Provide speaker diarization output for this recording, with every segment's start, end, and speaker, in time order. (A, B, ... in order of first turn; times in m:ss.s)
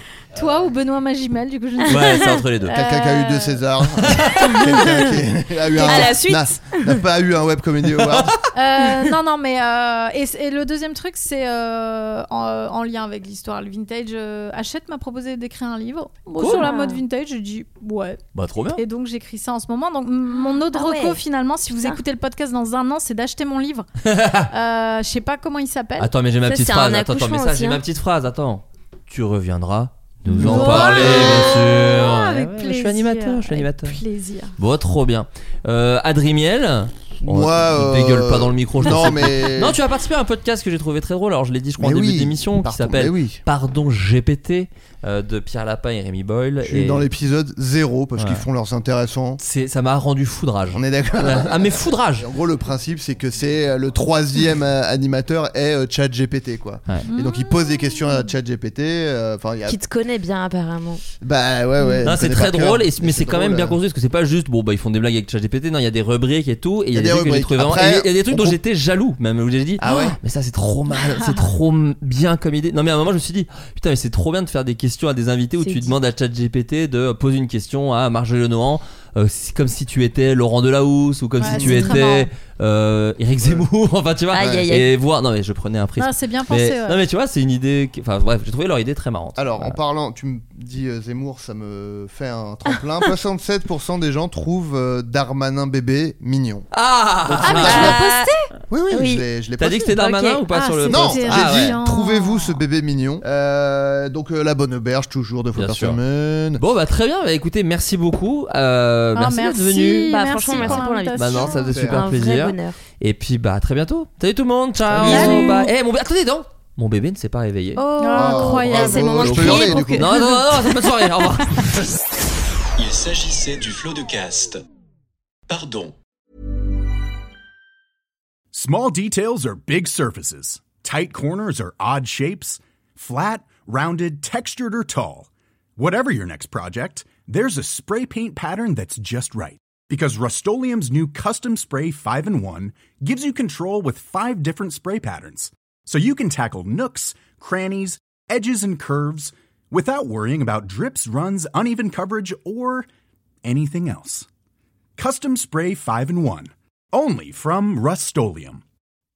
0:00.3-0:03.6 A
0:01.9-0:02.7 B
0:01.9-0:02.2 C
0:02.7-0:08.4 D
0:04.6-0:05.0 C
0:05.8-0:07.0 C
0:05.8-0:06.1 A
0:08.0-0:08.4 B
0:08.5-0:18.2 A
0:16.4-0:16.7 B
0:16.4-0:17.0 C
0:18.3-0:18.8 B
0:18.7-0:23.9 A
0:20.3-0:21.2 C
0:21.7-0:22.0 C
0:24.0-0:24.5 B
0:24.5-0:26.1 A
0:26.0-0:34.0 B
0:26.4-0:27.8 C
0:30.3-0:34.5 A
0:30.4-0:31.5 D
0:34.6-0:47.0 B
0:37.2-0:39.8 D
0:41.8-0:43.4 D
0:46.6-0:49.4 D
0:48.2-0:48.4 B
0:49.4-0:52.2 B
0:50.7-0:59.8 D
0:57.1-0:58.2 A
0:59.6-1:01.0 C
1:01.2-1:03.8 D
1:02.0-1:29.8 B
1:06.9-1:08.6 D
1:09.8-1:10.2 D
1:11.1-1:11.4 A
1:15.6-1:15.9 C
1:21.4-1:22.3 A
1:21.4-1:21.8 D
1:24.3-1:24.9 C
1:24.4-1:24.7 D
1:26.0-1:27.0 A
1:29.4-1:36.7 D
1:36.7-1:38.0 B
1:37.2-1:38.0 D
1:37.4-1:38.5 A
1:37.6-1:38.3 C
1:38.7-1:39.9 D
1:38.9-1:39.2 C
1:39.6-1:41.8 B
1:39.9-1:40.4 C
1:40.5-1:42.6 A
1:40.9-1:46.6 D
1:45.6-1:46.0 B
1:46.6-1:57.8 B
1:49.1-1:51.8 A
1:50.1-1:52.8 C
1:51.6-1:52.0 D
1:54.9-1:55.3 D
1:55.0-1:55.6 C
1:55.1-1:55.7 A
1:57.8-1:59.2 A
1:57.8-2:00.1 C
1:58.1-2:00.1 D
1:59.1-2:01.7 B
2:02.8-2:04.6 E
2:05.5-2:05.9 E
2:08.5-2:32.9 F
2:33.4-2:34.3 F
2:35.0-2:38.6 F